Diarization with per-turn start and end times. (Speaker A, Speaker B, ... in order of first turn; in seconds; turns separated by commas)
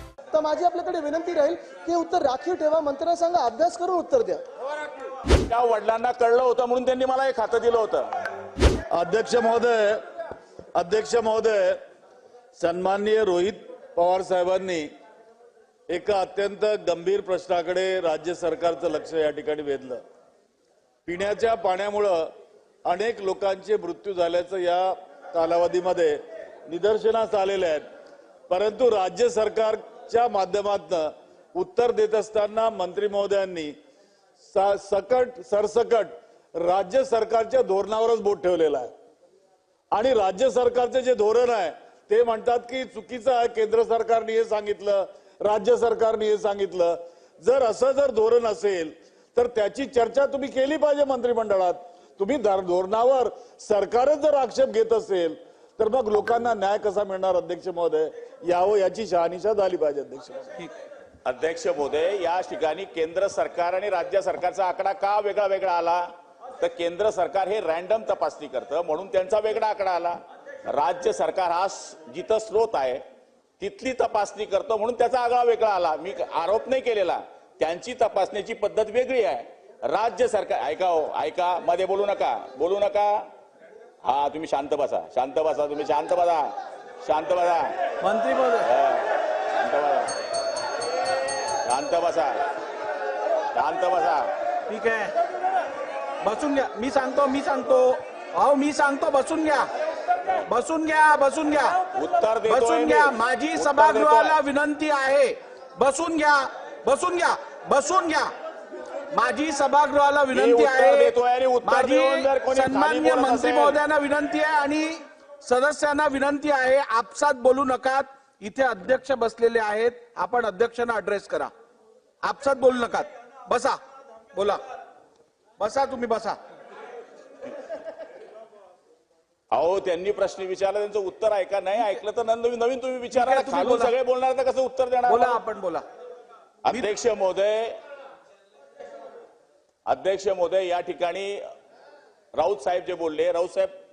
Speaker A: 0.3-4.4, Speaker B: 5.5-8.1, Speaker C: 8.9-10.0, Speaker C: 10.8-11.8, Speaker C: 12.6-14.9, Speaker C: 15.9-20.0, Speaker C: 21.1-22.3, Speaker C: 22.9-27.9, Speaker C: 28.5-33.8, Speaker C: 34.5-38.9, Speaker C: 39.9-60.5, Speaker B: 61.2-66.0, Speaker B: 66.6-73.0, Speaker B: 73.6-83.3, Speaker B: 84.0-86.5, Speaker B: 87.0-87.7, Speaker D: 88.0-88.7, Speaker B: 88.7-90.1, Speaker B: 91.7-92.4, Speaker B: 93.5-94.3, Speaker D: 94.7-95.2, Speaker D: 96.2-99.7, Speaker D: 100.5-101.8, Speaker B: 102.0-104.4, Speaker D: 102.4-108.3, Speaker D: 109.1-121.5, Speaker B: 110.3-113.8, Speaker D: 122.2-123.8, Speaker D: 124.3-124.6, Speaker D: 125.6-126.4, Speaker B: 129.5-135.4, Speaker D: 133.1-133.9, Speaker D: 135.1-135.8, Speaker B: 136.6-137.8, Speaker D: 136.7-136.9, Speaker B: 139.9-141.4, Speaker B: 142.4-143.7